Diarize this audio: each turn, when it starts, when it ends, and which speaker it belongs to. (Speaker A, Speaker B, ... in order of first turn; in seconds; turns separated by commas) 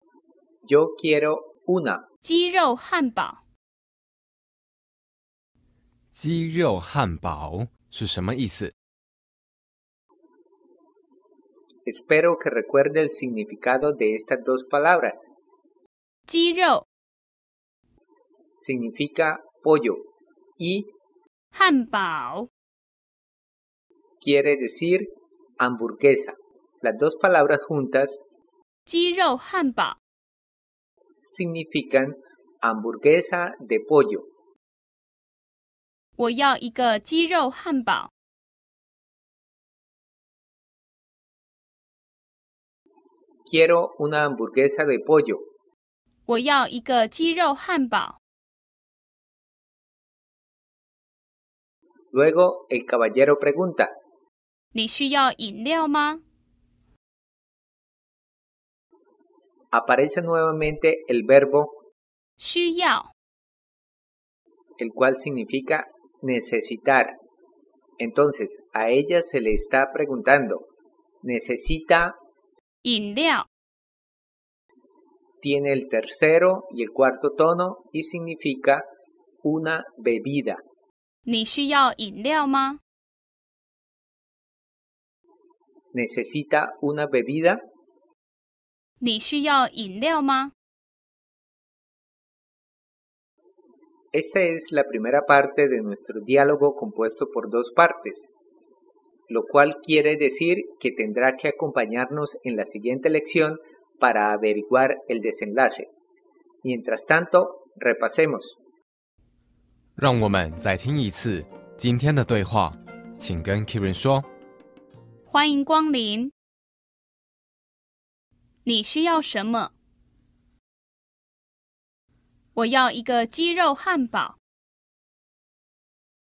Speaker A: 0.6-2.0, Speaker B: 2.2-3.4, Speaker C: 6.1-8.7, Speaker A: 11.8-15.3, Speaker B: 16.3-16.8, Speaker A: 18.6-20.0, Speaker A: 20.6-20.9, Speaker B: 21.5-22.5, Speaker A: 24.2-25.1, Speaker A: 25.6-28.2, Speaker B: 28.9-30.0, Speaker A: 31.2-34.3, Speaker B: 36.2-38.1, Speaker A: 43.5-45.4, Speaker B: 46.3-48.2, Speaker A: 52.1-53.9, Speaker B: 54.7-56.2, Speaker A: 59.7-61.7, Speaker B: 62.4-63.1, Speaker A: 64.8-67.1, Speaker A: 68.0-70.7, Speaker A: 71.2-72.2, Speaker B: 72.8-73.5, Speaker A: 75.4-78.8, Speaker A: 79.4-80.6, Speaker B: 81.2-82.8, Speaker A: 85.9-87.6, Speaker B: 89.0-90.5, Speaker A: 94.1-98.3, Speaker A: 99.3-105.9, Speaker A: 106.6-108.6, Speaker C: 110.0-114.3, Speaker B: 115.3-116.3, Speaker B: 118.6-119.7, Speaker B: 122.5-124.4